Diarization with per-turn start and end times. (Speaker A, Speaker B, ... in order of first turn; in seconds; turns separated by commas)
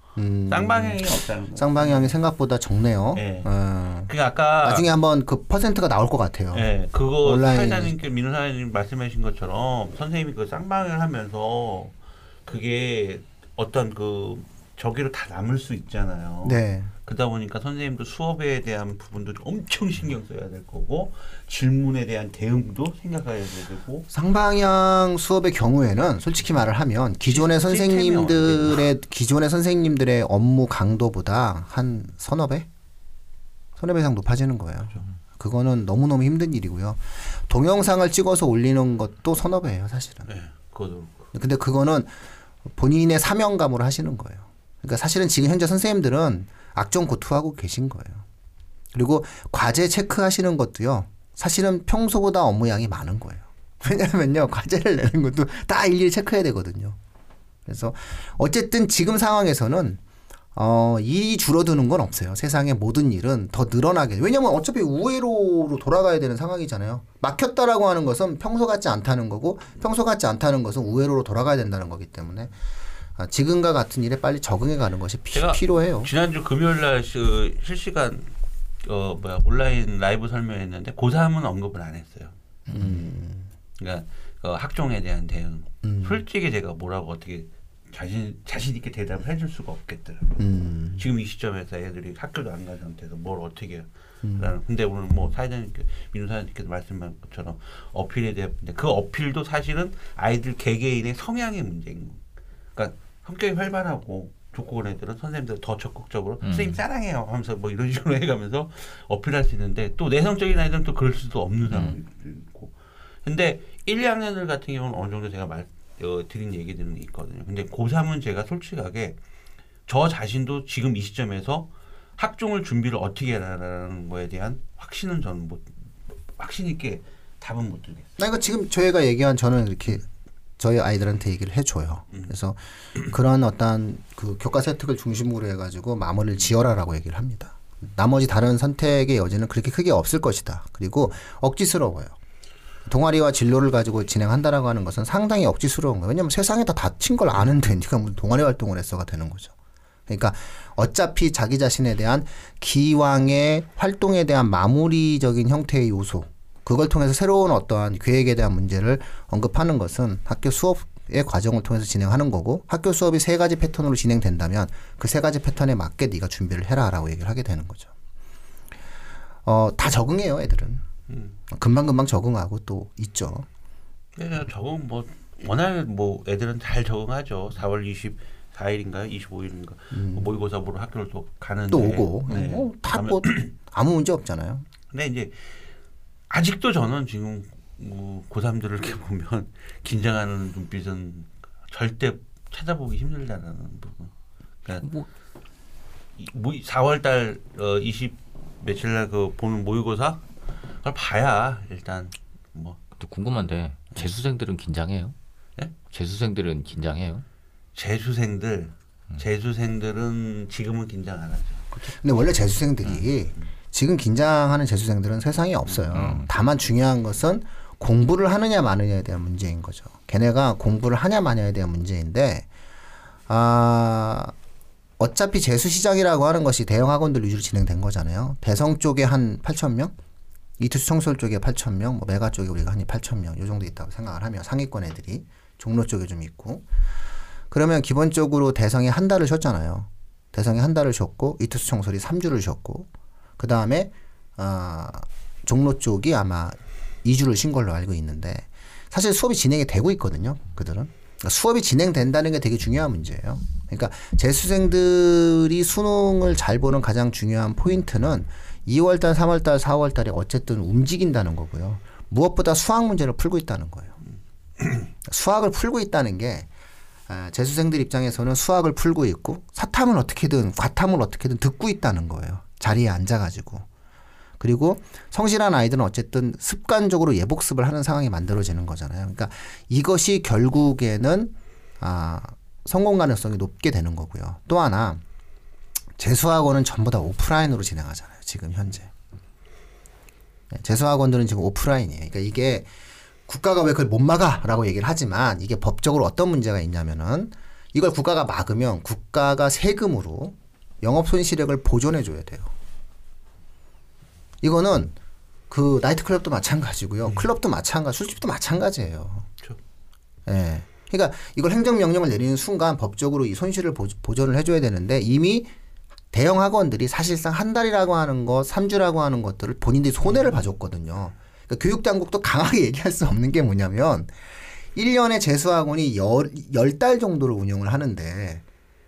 Speaker A: 0.1-4.1, Speaker B: 0.5-2.1, Speaker B: 3.1-3.5, Speaker B: 4.1-4.9, Speaker A: 4.6-6.7, Speaker B: 6.5-11.9, Speaker A: 7.2-7.9, Speaker B: 12.4-24.1, Speaker A: 16.4-16.9, Speaker A: 24.1-32.7, Speaker B: 27.2-28.9, Speaker A: 33.8-40.3, Speaker B: 40.3-41.3, Speaker A: 41.3-42.1, Speaker A: 42.6-48.2, Speaker A: 48.9-57.0, Speaker A: 57.6-60.0, Speaker A: 60.5-72.5, Speaker A: 73.2-76.1, Speaker B: 75.3-78.3, Speaker B: 78.8-82.3, Speaker A: 82.7-83.5, Speaker B: 83.8-102.2, Speaker A: 85.8-86.2, Speaker A: 90.4-91.0, Speaker A: 94.2-94.5, Speaker B: 102.8-119.2, Speaker C: 106.4-106.8, Speaker B: 119.9-125.7, Speaker B: 126.4-128.2, Speaker A: 128.2-130.1, Speaker A: 130.6-142.1, Speaker A: 142.8-149.5, Speaker A: 150.1-167.9, Speaker A: 169.4-170.8, Speaker B: 171.1-171.3, Speaker A: 171.5-173.4, Speaker B: 174.2-183.5, Speaker A: 179.9-180.3, Speaker A: 181.7-184.7, Speaker B: 184.9-185.3, Speaker B: 186.3-194.1, Speaker C: 194.8-195.1, Speaker B: 196.2-200.2, Speaker B: 200.8-202.8, Speaker C: 203.0-205.1, Speaker C: 205.8-207.2, Speaker B: 207.7-211.8, Speaker A: 211.9-222.4, Speaker B: 215.7-216.0, Speaker C: 215.9-216.3, Speaker A: 223.3-224.3, Speaker A: 225.0-229.9, Speaker A: 230.6-236.6, Speaker A: 237.5-264.0, Speaker A: 265.1-266.5, Speaker A: 267.1-273.7, Speaker A: 274.4-285.0, Speaker A: 286.0-288.9, Speaker A: 290.5-292.7, Speaker A: 293.3-302.5, Speaker A: 304.4-304.9, Speaker A: 305.5-309.3, Speaker A: 310.2-315.5, Speaker A: 316.1-324.1, Speaker A: 324.7-328.4